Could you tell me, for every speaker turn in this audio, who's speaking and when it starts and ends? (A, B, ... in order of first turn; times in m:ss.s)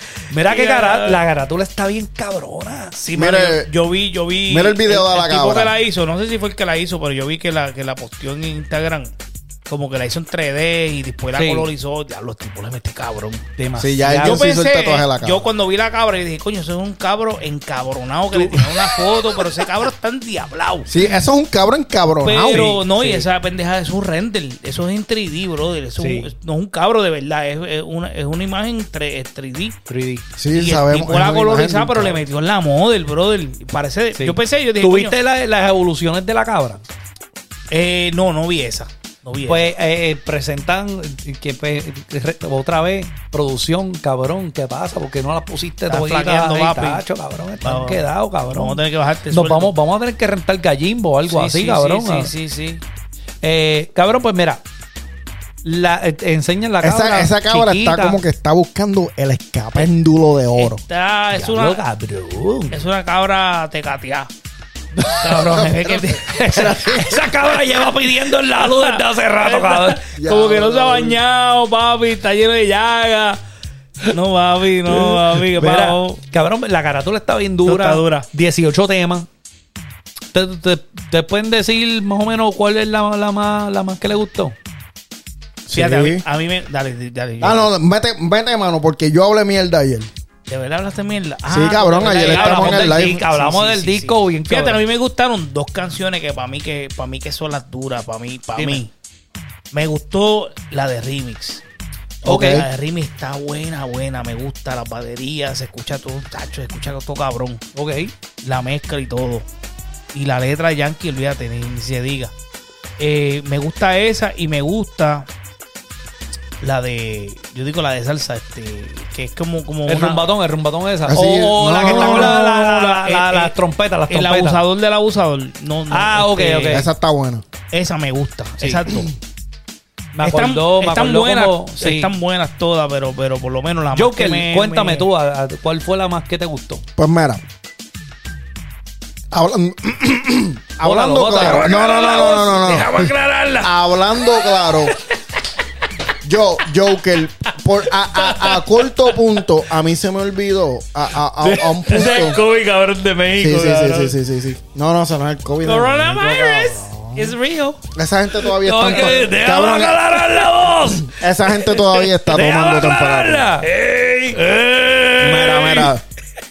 0:00.3-0:03.0 A
0:00.4-0:01.2 B
0:03.0-0:09.1 B
0:03.1-0:03.7 C
0:04.5-0:05.7 C
0:09.7-0:13.4 B
0:11.3-0:11.7 A
0:13.6-0:14.4 A
0:13.8-0:15.5 C
0:14.2-0:20.9 B
0:18.3-0:19.0 A
0:20.9-0:22.8 C
0:22.2-0:29.8 B
0:22.5-0:23.3 A
0:26.0-0:26.3 A
0:29.9-0:30.2 A
0:30.4-0:32.2 C
0:30.5-0:35.2 B
0:34.2-0:36.8 A
0:37.7-0:39.7 B
0:39.4-0:52.3 A
0:45.9-0:47.0 B
0:47.6-0:49.7 B
0:51.3-0:52.8 B
0:53.4-0:54.6 A
0:55.6-0:58.2 A
0:56.8-1:00.8 C
1:00.5-1:01.8 B
1:01.3-1:02.8 A
1:02.7-1:04.3 B
1:05.0-1:10.0 A
1:05.2-1:06.7 B
1:05.6-1:07.3 C
1:08.2-1:13.4 B
1:10.1-1:11.2 C
1:14.1-1:16.2 B
1:14.9-1:19.3 A
1:17.6-1:18.3 B
1:20.3-1:24.6 A
1:25.6-1:26.2 C
1:25.7-1:27.7 B
1:27.4-1:30.1 C
1:30.5-1:38.9 B
1:31.5-1:33.2 C
1:32.0-1:34.8 A
1:38.6-1:38.8 A
1:39.7-1:41.6 B
1:42.2-1:42.7 C
1:42.2-1:42.6 A
1:42.2-1:47.6 B
1:47.7-1:48.1 A
1:48.4-1:49.4 B
1:50.1-1:52.3 B
1:53.0-1:55.3 B
1:56.6-2:00.3 B
1:59.9-2:04.6 A
2:01.1-2:02.4 C
2:01.8-2:03.5 B
2:04.1-2:06.8 B
2:05.9-2:06.9 A
2:06.7-2:07.4 C
2:07.7-2:09.1 B
2:10.1-2:12.1 A
2:10.2-2:15.1 B
2:13.9-2:16.8 A
2:17.0-2:17.4 C
2:19.3-2:25.0 C
2:20.8-2:22.1 A
2:21.4-2:23.8 B
2:26.2-2:32.4 C
2:28.0-2:29.2 B
2:31.4-2:32.1 A
2:31.9-2:34.2 B
2:33.4-2:37.3 C
2:35.6-2:37.8 B
2:37.9-2:40.2 C
2:38.6-2:41.1 A
2:38.8-2:39.3 B
2:41.0-2:43.5 C
2:42.3-2:43.7 A
2:43.6-2:44.4 B
2:44.3-2:45.8 A
2:45.2-2:46.0 C
2:45.6-2:45.9 B